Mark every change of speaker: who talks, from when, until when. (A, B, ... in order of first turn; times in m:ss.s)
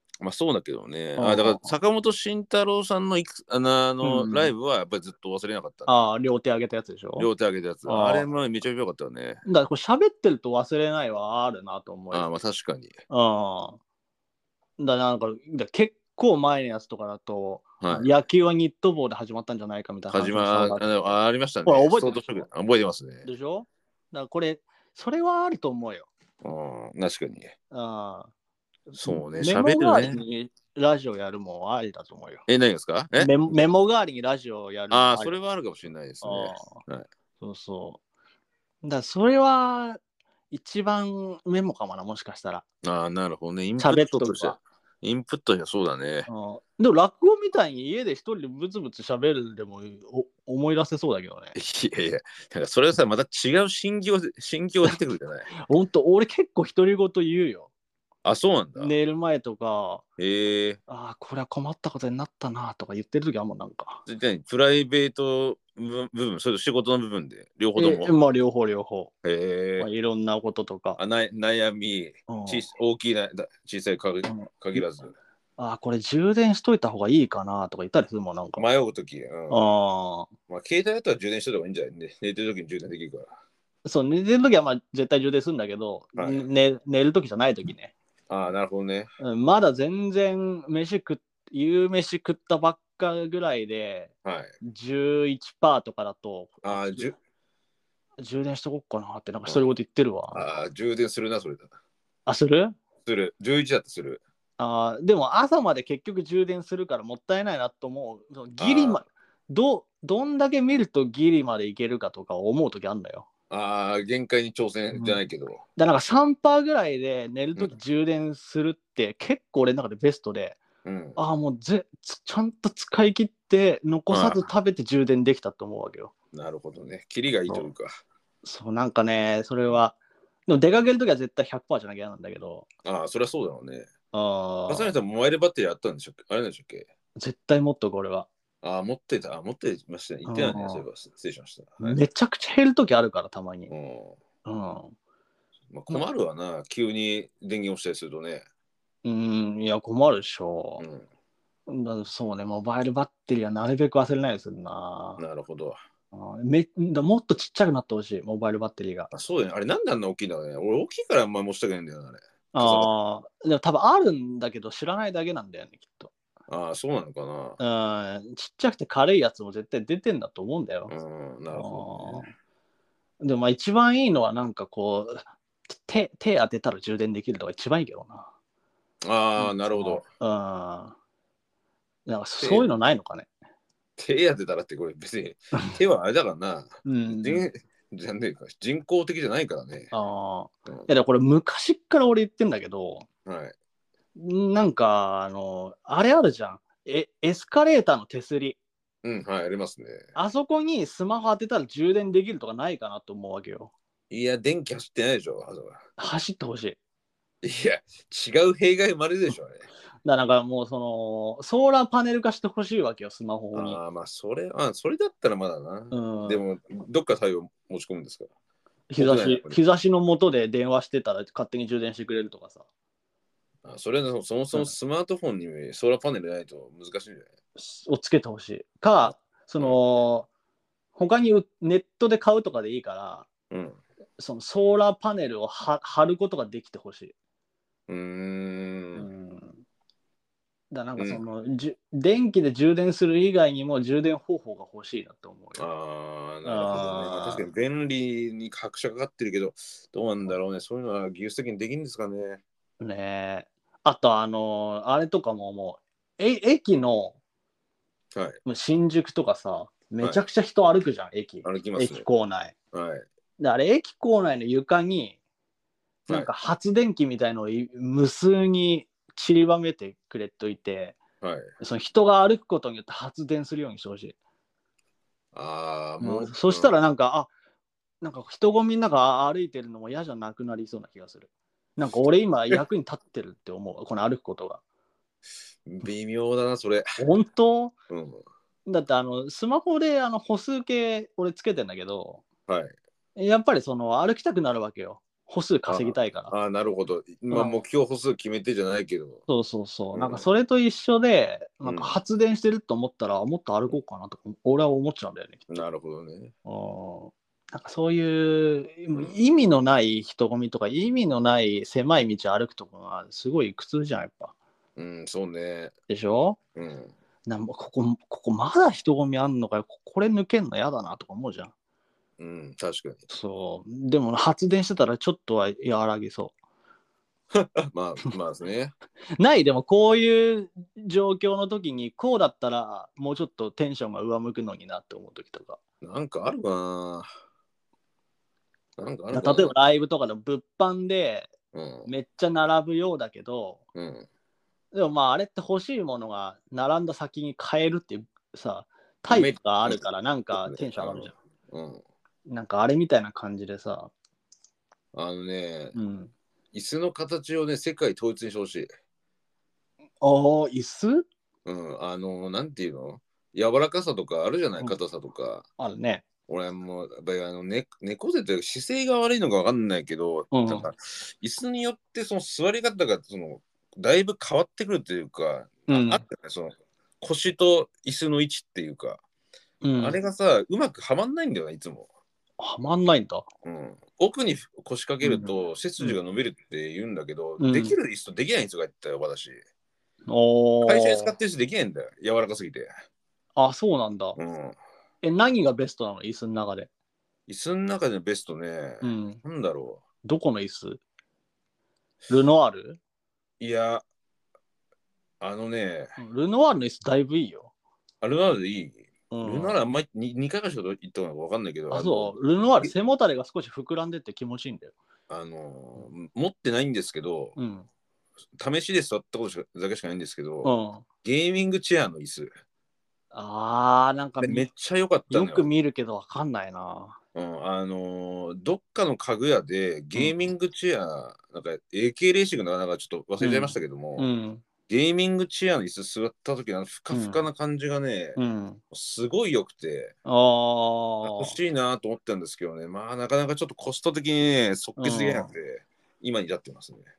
0:00.2-0:05.9 A
0:01.2-0:01.7 B
0:04.0-0:04.5 B
0:05.9-0:07.3 B
0:07.2-0:09.4 A
0:07.9-0:08.2 B
0:09.4-0:12.3 B
0:12.1-0:12.9 A
0:13.1-0:13.8 B
0:14.8-0:21.1 B
0:17.8-0:18.1 A
0:20.1-0:23.3 A
0:21.6-0:22.4 B
0:23.2-0:26.1 B
0:26.4-0:27.5 A
0:27.7-0:28.3 B
0:28.9-0:30.2 A
0:29.0-0:32.5 B
0:32.5-0:33.3 A
0:33.2-0:35.4 B
0:34.9-0:37.1 A
0:36.2-0:36.8 B
0:37.4-0:38.0 B
0:38.8-0:42.6 B
0:42.8-0:46.3 A
0:43.8-0:44.6 B
0:46.3-0:51.6 B
0:51.6-0:55.5 A
0:55.6-0:57.7 B
0:58.2-0:58.9 A
0:58.8-1:00.0 B
1:00.2-1:00.8 A
1:00.9-1:04.0 B
1:04.1-1:08.1 A
1:07.8-1:09.1 B
1:09.2-1:09.9 A
1:09.8-1:11.0 B
1:11.0-1:15.1 A
1:12.3-1:12.6 B
1:14.3-1:14.8 B
1:15.6-1:18.6 B
1:18.6-1:19.6 A
1:19.5-1:20.3 B
1:20.5-1:23.3 A
1:23.8-1:27.9 B
1:26.2-1:26.4 A
1:28.3-1:29.1 A
1:29.2-1:34.1 B
1:34.2-1:34.5 A
1:34.6-1:37.0 B
1:36.6-1:37.2 A
1:38.2-1:40.4 B
1:40.3-1:41.7 A
1:42.3-1:42.8 B
1:43.0-1:44.2 A
1:44.6-1:53.3 B
1:48.6-1:49.0 A
1:53.5-1:55.6 A
1:55.8-2:00.6 B
2:00.8-2:01.2 A
2:01.2-2:06.1 B
2:04.1-2:04.4 A
2:06.3-2:07.9 A
2:08.4-2:10.0 B
2:10.5-2:12.7 B
2:12.8-2:13.9 A
2:14.1-2:14.9 B
2:14.7-2:16.9 A
2:17.2-2:18.3 B
2:18.6-2:22.0 A
2:20.3-2:20.8 B
2:21.8-2:23.7 B
2:23.7-2:24.2 A
2:24.4-2:24.9 B
2:25.7-2:28.4 A
2:29.0-2:30.8 B
2:30.8-2:31.1 A
2:31.7-2:35.2 B
2:35.2-2:35.8 A
2:36.1-2:39.1 B
2:39.1-2:42.9 A
2:42.5-2:46.1 B
2:46.5-2:47.6 A
2:47.6-2:50.9 B
2:50.9-2:52.3 A
2:51.5-2:52.3 B
2:53.2-2:58.3 B
2:59.0-3:00.0 A
2:59.4-3:01.0 B
3:02.1-3:03.3 B
3:02.4-3:02.7 A
3:04.0-3:09.9 A
3:06.8-3:07.4 B
3:09.9-3:13.1 B
3:13.3-3:13.6 A
3:14.2-3:18.6 B
3:19.0-3:20.0 A
3:20.2-3:23.7 B
3:24.1-3:25.8 A
3:26.0-3:26.8 B
3:27.4-3:29.7 A
3:30.0-3:33.8 B
3:33.5-3:38.3 A
3:35.9-3:36.4 B
3:38.9-3:42.6 B
3:39.0-3:39.6 A
3:43.6-3:47.3 A
3:47.6-3:50.3 B
3:51.0-3:53.3 B
3:53.5-3:53.8 A
3:54.2-3:57.1 B
3:57.9-3:59.1 A
3:59.0-3:59.6 B
4:00.7-4:05.6 B
4:05.6-4:12.4 A
4:06.4-4:07.5 B
4:12.8-4:17.2 B
4:18.5-4:22.6 B
4:21.4-4:22.1 A
4:22.7-4:23.1 A
4:23.4-4:25.2 B
4:26.1-4:31.0 B
4:31.2-4:31.5 A
4:31.6-4:34.2 B
4:35.3-4:36.8 A
4:36.0-4:37.3 B
4:38.0-4:44.6 B
4:45.7-4:47.0 A
4:47.0-4:47.8 B
4:47.9-4:48.2 A
4:48.7-4:52.2 B
4:52.5-4:52.8 A
4:53.2-4:56.3 B
4:55.7-4:59.2 A
4:57.3-4:57.6 B
4:59.3-5:05.4 B
4:59.9-5:00.3 A
5:01.6-5:02.0 A
5:05.5-5:06.3 A
5:06.5-5:14.3 B
5:14.8-5:15.7 A
5:15.9-5:16.4 B
5:16.6-5:16.9 A
5:17.3-5:21.5 B
5:22.2-5:23.1 A
5:23.1-5:26.3 B
5:27.3-5:28.8 A
5:29.2-5:35.6 B
5:35.8-5:37.1 A
5:38.8-5:39.5 A
5:39.1-5:41.3 B
5:41.5-5:41.9 A
5:41.9-5:43.6 B
5:43.8-5:44.1 A
5:44.7-5:51.1 B
5:49.1-5:51.8 A
5:52.3-5:53.9 B
5:54.9-5:55.8 A
5:55.8-5:56.1 B
5:56.5-5:58.7 A
6:00.0-6:01.1 B
6:01.5-6:05.5 A
6:05.6-6:06.0 B
6:06.3-6:19.0 A
6:10.3-6:10.7 B
6:15.7-6:16.0 B
6:19.6-6:20.0 B
6:19.8-6:21.9 A
6:22.4-6:23.3 B
6:23.4-6:29.4 A
6:25.0-6:26.0 B
6:27.4-6:27.8 B
6:30.1-6:31.1 B
6:30.6-6:32.7 A
6:33.4-6:34.2 B
6:34.2-6:34.6 A
6:35.0-6:36.7 B
6:37.3-6:39.8 A
6:38.8-6:39.2 B
6:40.0-6:40.8 B
6:42.1-6:42.8 B
6:43.4-6:43.8 A
6:45.2-6:46.0 A
6:46.0-6:47.5 B
6:48.0-6:52.7 A
6:49.1-6:49.6 B
6:51.7-6:54.7 B
6:55.1-6:57.4 A
6:57.4-6:57.7 B
6:58.4-7:00.5 A
7:00.4-7:00.8 B
7:01.0-7:02.3 A
7:03.1-7:04.5 B
7:04.2-7:05.5 A
7:05.1-7:07.0 B
7:07.2-7:14.1 A
7:10.0-7:10.3 B
7:13.2-7:14.4 B
7:14.7-7:18.2 A
7:16.9-7:17.2 B
7:18.2-7:18.6 B
7:18.7-7:19.9 A
7:20.1-7:21.4 B
7:21.0-7:26.9 A
7:24.8-7:25.3 B